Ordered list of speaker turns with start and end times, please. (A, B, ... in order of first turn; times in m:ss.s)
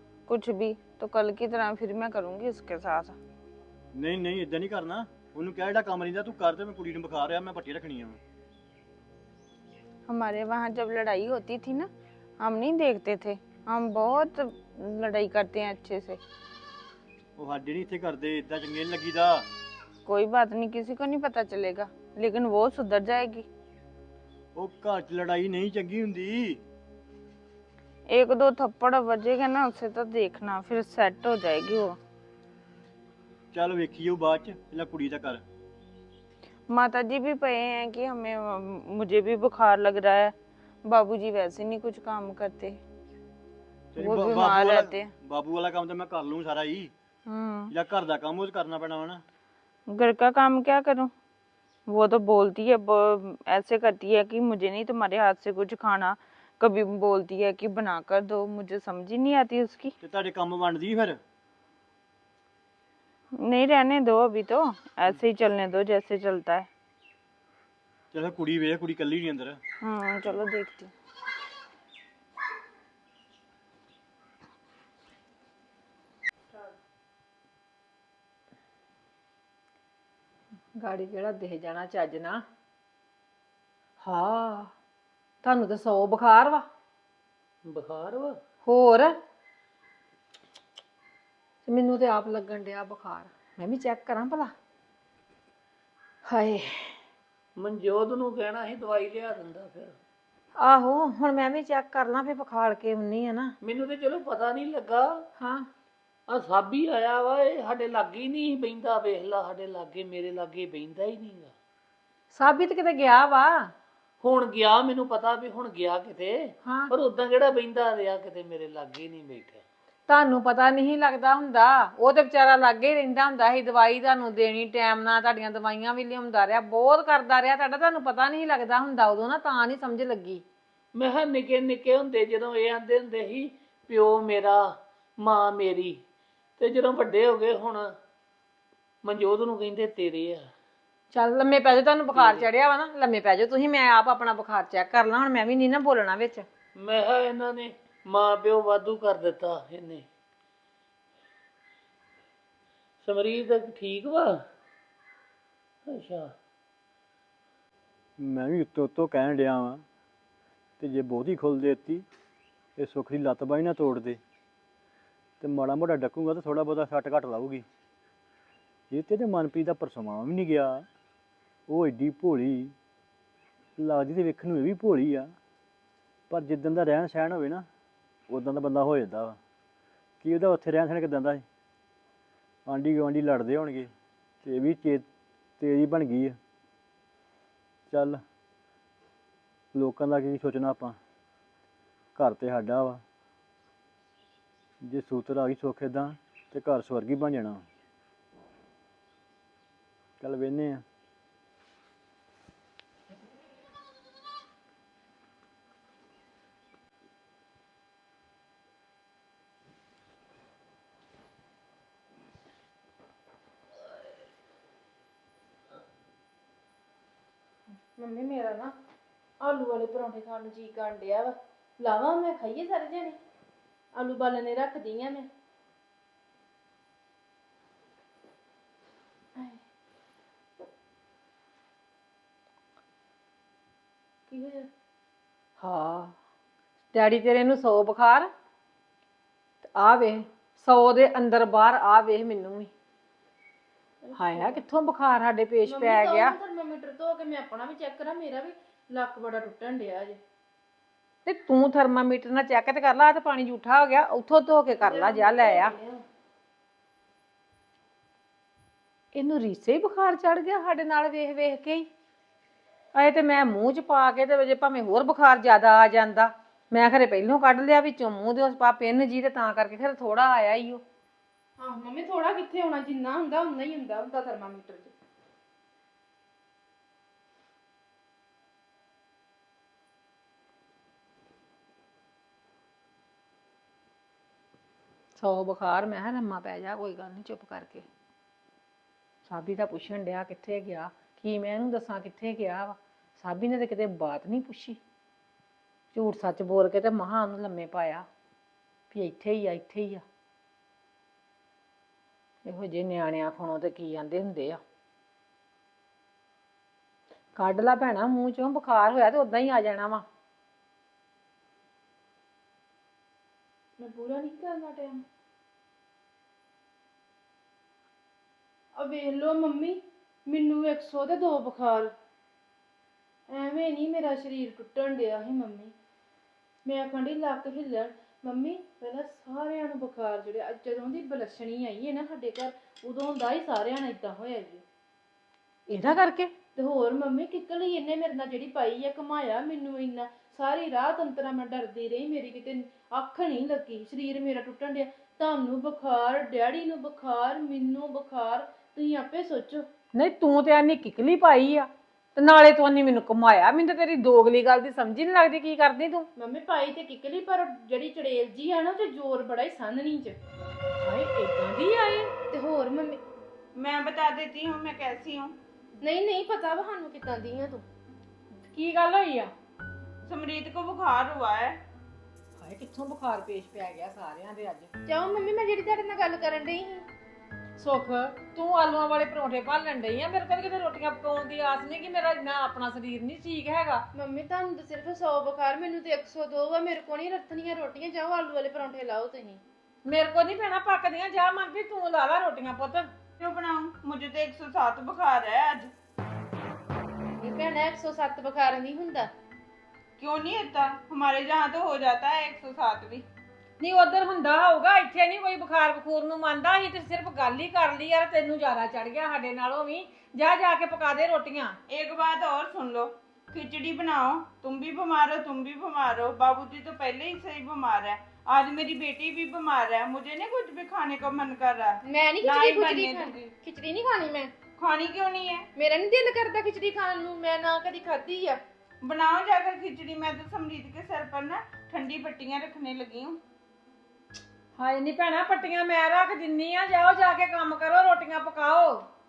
0:00.3-0:03.1 A
0:03.9-0:08.2 B
0:10.1-0:11.9 A
0:12.4-0:16.2 A
0:17.4-0:19.4 B
0:20.0-0:23.4 A
0:24.6-0:26.6 B
0:28.1-0:32.0 A
0:33.5-0:35.4 B
0:36.7-0:40.3 A
0:40.8-0:42.8 A
0:43.9-0:46.9 B
0:44.0-0:45.1 A
0:47.3-0:47.7 A
0:47.7-0:49.2 B
0:50.0-0:51.1 A
0:51.9-0:54.4 A
0:54.4-0:56.1 C
0:56.6-0:59.1 A
0:58.6-0:59.7 C
1:00.0-1:01.2 B
1:03.4-1:05.2 C
1:05.7-1:06.6 C
1:08.1-1:09.6 B
1:09.8-1:10.9 A
1:20.8-1:22.4 D
1:24.0-1:24.7 D
1:25.4-1:26.6 D
1:27.6-1:28.4 E
1:28.6-1:29.1 D
1:31.6-1:34.5 D
1:36.2-1:37.0 D
1:37.6-1:39.9 E
1:40.6-1:43.5 D
1:43.6-1:45.2 E
1:45.4-1:45.7 D
1:46.3-1:51.5 E
1:52.3-1:53.7 D
1:54.2-1:59.6 E
1:56.6-1:56.9 D
2:00.1-2:10.4 D
2:10.9-2:14.7 E
2:15.2-2:16.0 E
2:16.6-2:17.9 E
2:19.0-2:20.4 E
2:21.1-2:26.4 D
2:22.1-2:22.5 E
2:26.8-2:30.0 E
2:33.0-2:34.4 E
2:35.9-2:36.3 E
2:38.2-2:39.8 B
2:40.8-2:42.0 B
2:42.8-2:44.2 B
2:45.4-2:47.6 B
2:48.9-2:50.8 B
2:51.7-2:52.7 B
2:53.8-2:55.3 B
2:56.3-2:57.6 B
2:58.3-2:59.4 B
3:00.2-3:01.4 B
3:02.6-3:03.9 B
3:04.4-3:05.0 B
3:05.6-3:06.4 B
3:07.9-3:08.2 B
3:09.7-3:11.0 B
3:12.2-3:13.0 B
3:14.8-3:17.6 B
3:20.2-3:20.8 B
3:38.0-3:38.7 F
3:39.4-3:43.2 F
3:43.9-3:45.3 F
3:54.3-3:54.7 F
3:55.6-3:56.1 D
3:56.9-3:58.3 D
3:59.6-4:02.7 D
4:04.0-4:04.6 F
4:04.1-4:06.4 D
4:05.6-4:10.2 F
4:11.2-4:15.7 D
4:14.8-4:16.0 F
4:19.1-4:21.9 D
4:22.9-4:30.8 D
4:31.6-4:34.9 F
4:45.2-4:47.8 D
4:49.2-4:54.8 D
4:55.9-4:58.0 D
4:58.9-5:00.0 D
5:02.4-5:04.6 D
5:07.4-5:10.0 D
5:13.8-5:15.0 F
5:18.7-5:21.9 F
5:23.3-5:25.7 F
5:26.6-5:34.6 F
5:35.7-5:36.3 D
5:36.6-5:49.6 F
5:49.9-5:56.1 D
5:56.2-6:00.2 F
6:00.8-6:02.1 D
6:02.3-6:03.0 F
6:03.5-6:05.3 C
6:05.8-6:07.6 F
6:08.5-6:09.3 D
6:10.0-6:11.6 C
6:12.4-6:14.7 D
6:14.8-6:16.9 F
6:17.6-6:23.8 D
6:23.9-6:29.4 F
6:29.8-6:32.9 D
6:33.2-6:35.7 C
6:37.2-6:39.1 F
6:40.0-6:43.0 C
6:43.6-6:51.6 D
6:51.7-7:03.2 C
7:01.8-7:04.3 F
7:04.6-7:05.4 C
7:05.5-7:08.4 F
7:08.8-7:13.2 C
7:14.6-7:18.8 D